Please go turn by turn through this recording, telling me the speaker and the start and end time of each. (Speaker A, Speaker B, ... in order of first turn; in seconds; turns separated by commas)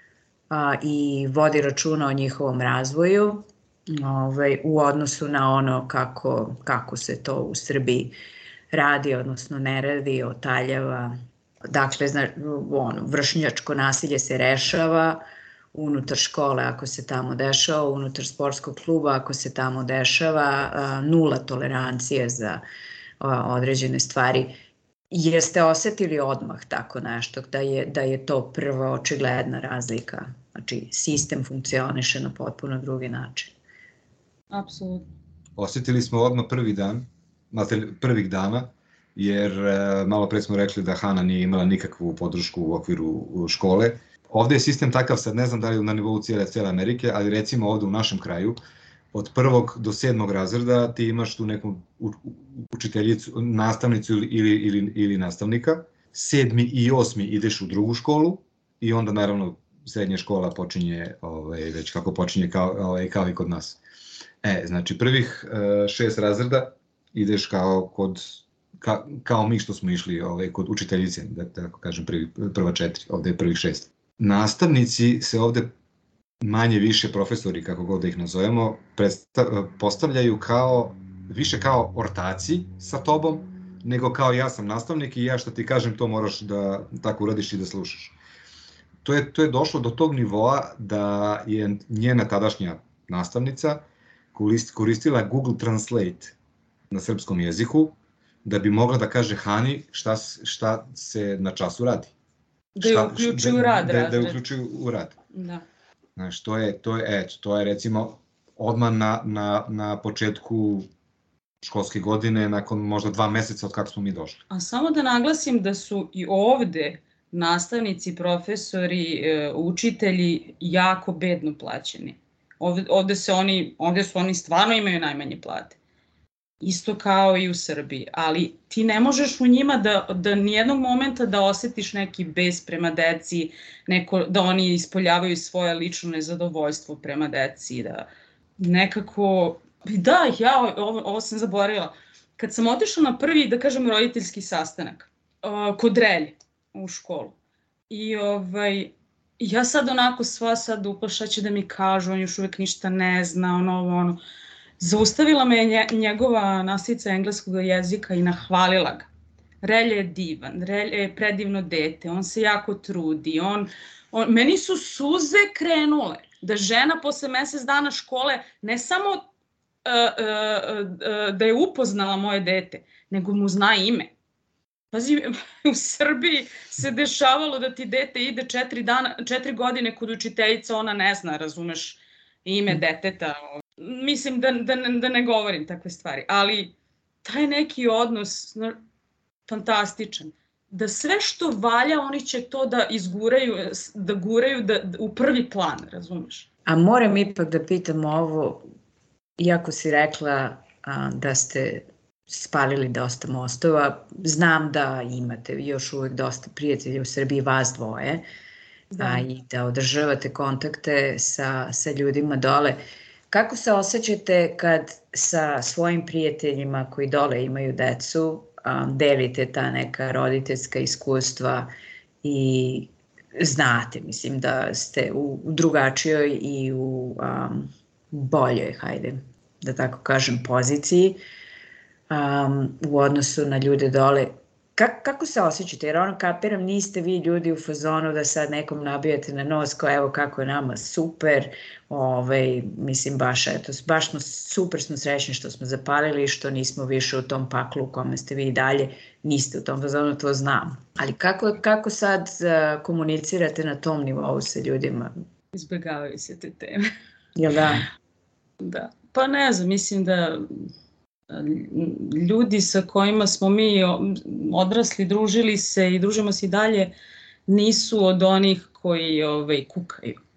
Speaker A: 0.5-8.1, Speaker A: 8.7-11.1, Speaker A: 11.7-15.2, Speaker A: 15.7-22.6, Speaker A: 23.2-24.6, Speaker A: 25.1-33.5, Speaker B: 34.5-35.1, Speaker C: 35.6-48.6, Speaker C: 49.1-63.8, Speaker C: 64.4-75.7, Speaker C: 76.4-88.2, Speaker C: 89.0-96.3, Speaker C: 96.9-102.1, Speaker B: 102.8-104.4, Speaker C: 102.8-105.1, Speaker B: 105.3-105.6, Speaker C: 106.2-110.9, Speaker C: 111.6-114.4, Speaker B: 114.5-125.8, Speaker B: 126.6-147.3, Speaker B: 147.9-154.2, Speaker B: 154.8-159.1, Speaker B: 159.6-169.2, Speaker B: 169.8-174.1, Speaker B: 174.9-188.8, Speaker B: 189.5-196.5, Speaker A: 196.7-198.6, Speaker A: 199.4-208.2, Speaker B: 208.9-209.2, Speaker A: 209.0-212.8, Speaker A: 213.3-221.7, Speaker A: 222.2-231.2, Speaker A: 232.1-255.1, Speaker B: 255.5-256.8, Speaker A: 257.4-257.9, Speaker B: 258.6-260.7, Speaker B: 261.3-266.9, Speaker B: 267.5-270.2